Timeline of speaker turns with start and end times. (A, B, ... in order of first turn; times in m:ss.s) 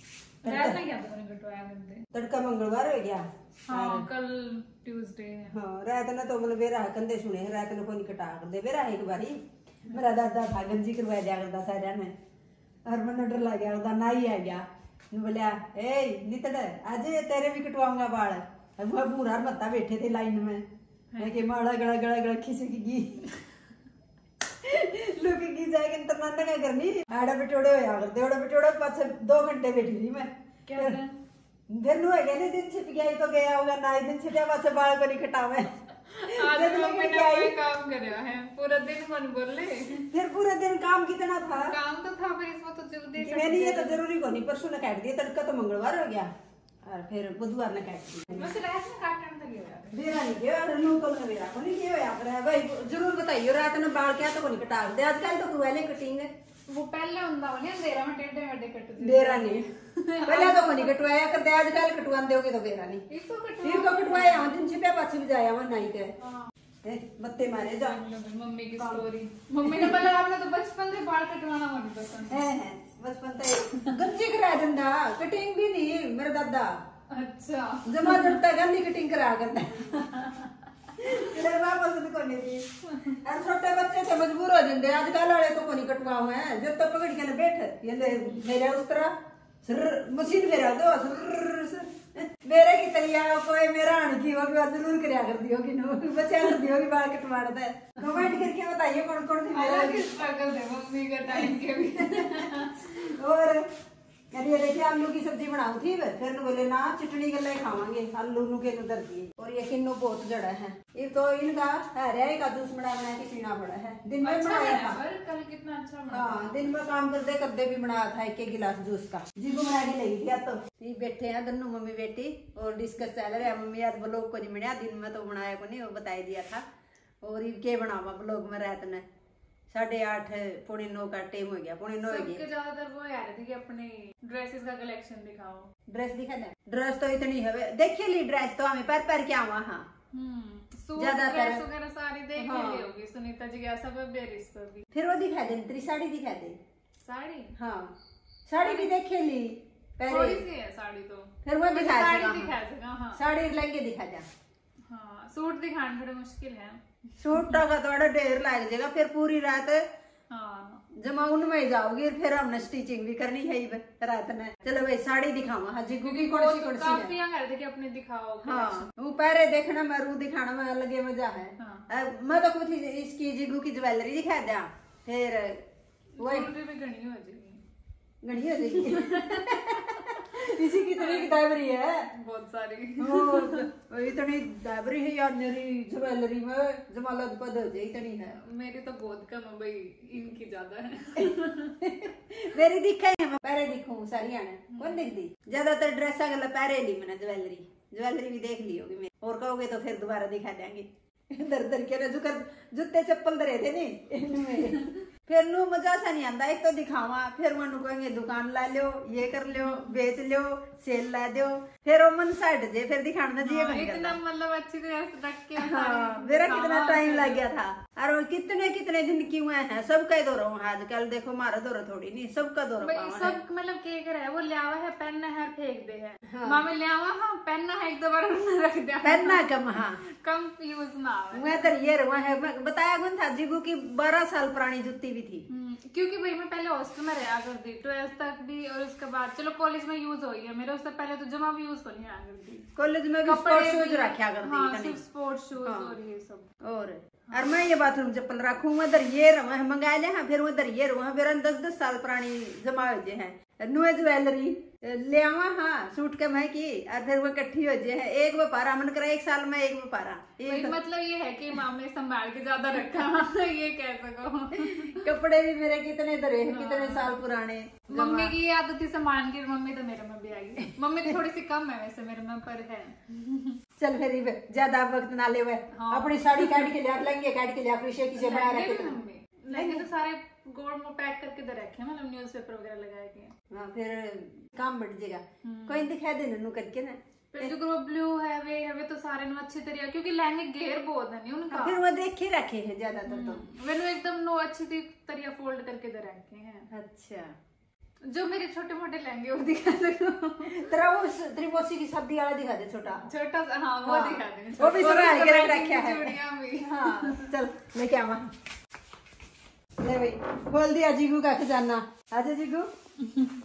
0:00.4-0:02.1 A
0:00.4-0:00.8 B
0:02.1-0:04.1 B
0:03.7-0:05.6 A
0:05.5-0:12.1 B
0:12.8-0:20.6 B
0:21.1-0:21.4 A
0:21.2-0:23.3 B
0:24.6-0:31.0 B
0:30.7-0:31.1 A
0:31.7-0:37.6 B
0:36.1-0:40.1 A
0:40.1-0:41.8 B
0:41.6-0:44.0 A
0:43.2-0:46.3 B
0:46.8-0:48.5 B
0:48.3-0:50.2 A
0:49.9-0:56.3 B
0:56.7-1:00.9 A
0:59.0-0:59.7 B
1:00.2-1:03.0 B
1:03.1-1:04.6 A
1:03.6-1:06.1 B
1:06.2-1:06.5 A
1:06.8-1:08.0 B
1:07.8-1:12.4 A
1:08.8-1:09.1 B
1:09.6-1:10.0 B
1:12.3-1:16.8 B
1:17.1-1:18.4 A
1:17.8-1:20.0 B
1:19.8-1:20.5 A
1:21.0-1:40.1 B
1:38.1-1:38.4 A
1:39.5-1:42.9 A
1:41.3-1:43.7 B
1:44.3-1:55.0 B
1:54.2-1:56.6 A
1:56.1-2:06.6 B
2:07.2-2:09.1 B
2:09.7-2:12.4 B
2:12.1-2:15.7 A
2:15.9-2:19.9 B
2:20.1-2:24.9 A
2:21.0-2:21.6 B
2:22.4-2:22.9 B
2:24.9-2:26.6 B
2:27.0-2:27.6 A
2:27.6-2:27.9 B
2:28.5-2:30.4 B
2:28.6-2:28.9 A
2:30.1-2:33.2 A
2:31.4-2:32.5 B
2:33.1-2:34.3 B
2:34.9-2:37.6 A
2:37.2-2:39.8 B
2:40.3-2:40.8 A
2:40.9-2:47.1 B
2:46.0-2:48.9 A
2:48.4-2:55.6 B
2:51.6-2:51.8 A
2:56.2-2:57.6 A
2:56.2-2:56.5 B
2:58.2-3:02.1 B
2:58.8-2:59.7 A
3:00.3-3:01.4 A
3:02.1-3:03.7 A
3:03.0-3:08.4 B
3:08.4-3:11.8 A
3:11.2-3:34.2 B
3:14.7-3:15.1 A
3:24.5-3:25.0 A
3:29.5-3:30.0 A
3:33.4-3:37.5 A
3:35.6-3:43.4 B
3:42.8-3:51.7 A
3:46.3-3:46.6 B
3:49.0-3:50.0 B
3:51.3-3:55.4 B
3:55.5-4:02.7 A
4:02.8-4:05.0 B
4:03.2-4:06.5 A
4:05.6-4:05.9 B
4:06.6-4:20.8 B
4:07.3-4:07.6 A
4:20.5-4:25.0 A
4:24.6-4:28.3 B
4:26.5-4:27.2 A
4:27.9-4:33.6 A
4:33.8-4:39.0 B
4:35.7-4:36.7 A
4:38.2-4:43.3 A
4:39.5-4:39.9 B
4:43.5-4:47.5 B
4:45.4-4:45.9 A
4:47.3-4:51.8 A
4:51.5-4:53.4 B
4:53.1-4:56.7 A
4:56.7-4:57.3 B
4:58.0-5:00.7 A
5:00.4-5:03.1 B
5:03.0-5:07.3 A
5:03.8-5:08.3 B
5:09.8-5:12.7 B
5:13.0-5:13.4 A